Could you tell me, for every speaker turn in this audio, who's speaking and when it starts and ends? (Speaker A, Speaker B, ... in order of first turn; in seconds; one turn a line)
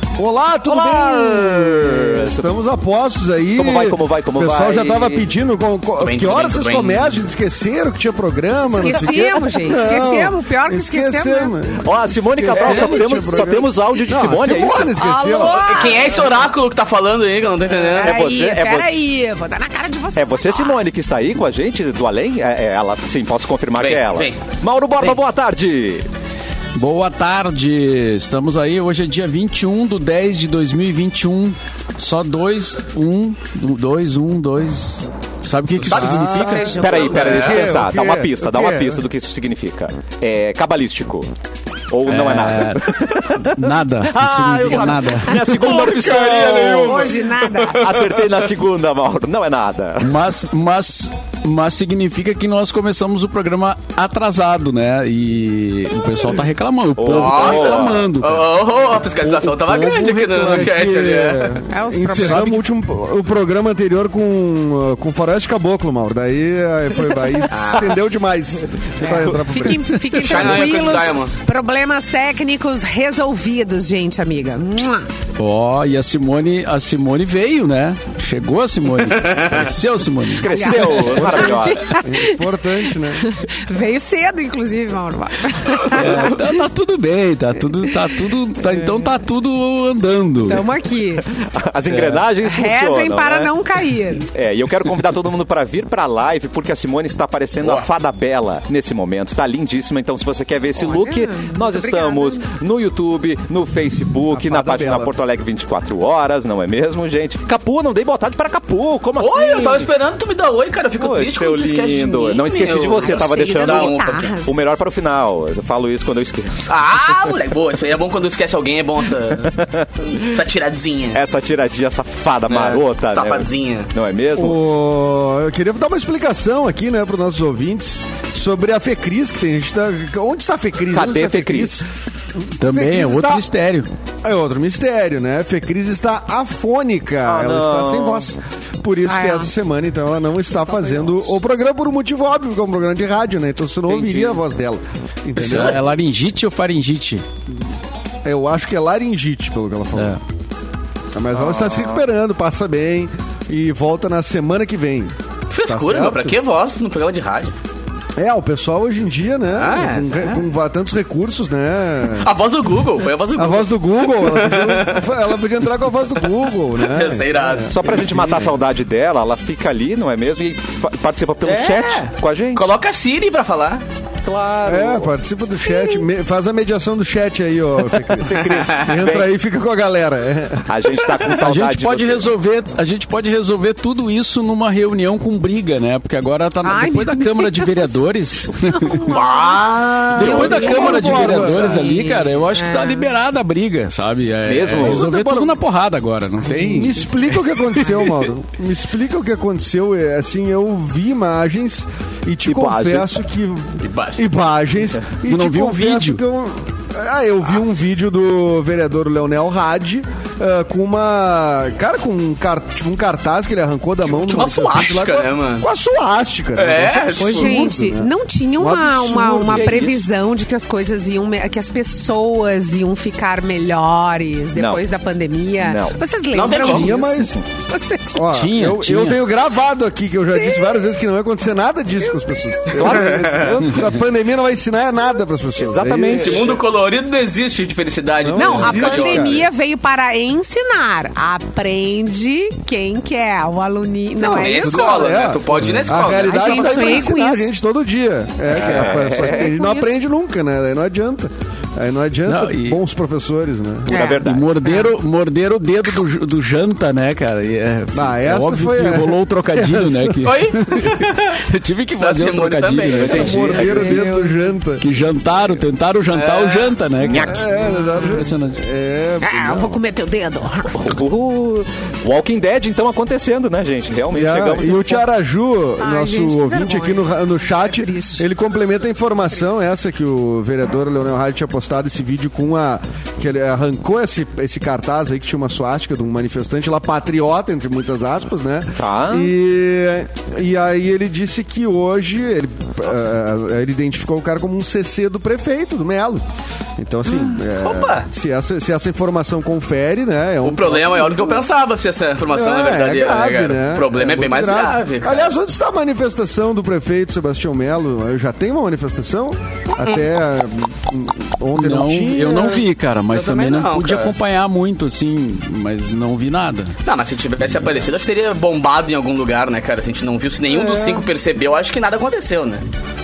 Speaker A: 0.2-15.7
Speaker B: 0.7-2.5
Speaker B: 3.6-5.3
Speaker C: 6.0-7.2
Speaker D: 8.7-11.6
Speaker B: 11.8-15.0
Speaker D: 14.9-16.4
Speaker C: 15.5-18.2
Speaker D: 17.9-20.8
Speaker B: 18.0-18.9
Speaker B: 20.1-26.1
Speaker C: 23.8-24.4
Speaker E: 26.8-36.9
Speaker C: 35.8-36.3
Speaker A: 35.9-39.0
Speaker D: 36.3-37.4
Speaker B: 36.8-41.3
Speaker C: 37.2-37.6
Speaker B: 41.9-50.2
Speaker E: 42.1-45.4
Speaker C: 45.3-48.2
Speaker D: 45.9-47.9
Speaker E: 50.0-58.5
Speaker B: 57.0-58.0
Speaker C: 57.0-61.6
Speaker E: 59.1-60.7
Speaker A: 60.2-70.7
Speaker D: 61.7-62.6
Speaker C: 67.5-68.0
Speaker D: 69.0-75.1
Speaker B: 69.1-69.7
Speaker C: 70.1-71.3
Speaker E: 75.4-81.0
Speaker C: 79.2-79.7
Speaker B: 80.4-81.9
Speaker D: 80.5-82.5
Speaker A: 81.4-83.3
Speaker D: 83.2-86.5
Speaker E: 85.9-90.7
Speaker D: 88.7-89.1
Speaker D: 90.4-91.2
Speaker B: 91.3-93.5
Speaker E: 91.9-92.2
Speaker D: 92.4-94.3
Speaker B: 94.3-109.9
Speaker C: 97.6-97.9
Speaker D: 100.8-102.5
Speaker A: 104.3-105.1
Speaker C: 109.2-114.3
Speaker B: 111.0-116.7
Speaker D: 112.8-114.6
Speaker C: 116.7-119.5
Speaker B: 119.4-120.2
Speaker C: 120.2-121.2
Speaker B: 121.1-124.6
Speaker C: 122.5-123.9
Speaker A: 124.4-131.9
Speaker B: 130.9-131.8
Speaker A: 132.4-133.5
Speaker E: 132.6-133.9
Speaker A: 134.2-145.8
Speaker B: 137.2-138.3
Speaker D: 139.1-139.5
Speaker D: 140.7-141.2
Speaker C: 143.9-144.4
Speaker E: 145.4-147.3
Speaker C: 145.4-145.8
Speaker A: 148.2-150.2
Speaker A: 151.1-156.4
Speaker B: 151.3-152.0
Speaker C: 155.5-157.5
Speaker A: 158.2-162.3
Speaker C: 159.6-160.4
Speaker C: 162.2-165.2
Speaker A: 163.3-168.6
Speaker C: 166.8-168.0
Speaker B: 167.7-172.6
Speaker C: 171.4-173.8
Speaker B: 174.2-175.1
Speaker A: 174.7-180.7
Speaker D: 175.7-176.0
Speaker B: 178.3-179.3
Speaker C: 178.4-178.9
Speaker B: 180.7-182.3
Speaker E: 181.3-189.2
Speaker D: 186.6-187.9
Speaker D: 188.6-189.6
Speaker C: 188.9-191.5
Speaker E: 190.2-197.1
Speaker A: 190.2-191.8
Speaker D: 190.2-193.2
Speaker B: 190.3-190.6
Speaker B: 194.4-195.1
Speaker A: 194.7-195.6
Speaker D: 196.5-197.1
Speaker A: 196.7-219.9
Speaker B: 202.5-203.2
Speaker C: 203.8-204.3
Speaker E: 205.3-206.2
Speaker C: 214.1-215.7
Speaker C: 216.6-217.7
Speaker D: 217.2-228.2
Speaker B: 219.5-219.9
Speaker B: 224.6-224.9
Speaker B: 225.6-226.0
Speaker C: 226.3-227.2
Speaker A: 226.6-227.4
Speaker A: 228.1-236.6
Speaker E: 228.3-229.2
Speaker D: 230.3-230.8
Speaker B: 232.7-234.0
Speaker C: 232.8-233.6
Speaker B: 235.6-236.6
Speaker C: 236.1-239.5
Speaker A: 238.2-239.4
Speaker D: 238.4-245.2
Speaker A: 244.2-254.1
Speaker C: 244.2-247.1
Speaker E: 245.6-246.0
Speaker D: 246.2-247.5
Speaker B: 248.5-249.5
Speaker D: 248.8-249.9
Speaker E: 252.3-252.8
Speaker B: 253.9-254.6
Speaker D: 253.9-254.9
Speaker E: 254.2-263.7
Speaker A: 257.9-260.3
Speaker C: 260.2-261.4
Speaker C: 262.0-263.5
Speaker A: 262.9-264.9
Speaker B: 262.9-264.0
Speaker D: 263.6-264.5
Speaker E: 264.8-268.6
Speaker C: 266.1-266.8
Speaker B: 267.0-267.5
Speaker A: 267.2-269.8
Speaker D: 267.8-268.2
Speaker D: 269.2-271.0
Speaker B: 270.7-275.0
Speaker A: 274.1-296.2
Speaker D: 275.8-278.3
Speaker B: 288.8-289.3
Speaker A: 296.8-301.5
Speaker C: 297.3-298.1
Speaker C: 300.4-305.3
Speaker A: 302.3-312.6
Speaker C: 309.8-310.1
Speaker E: 311.6-316.7
Speaker C: 313.1-314.1
Speaker C: 316.9-322.6
Speaker A: 320.5-321.1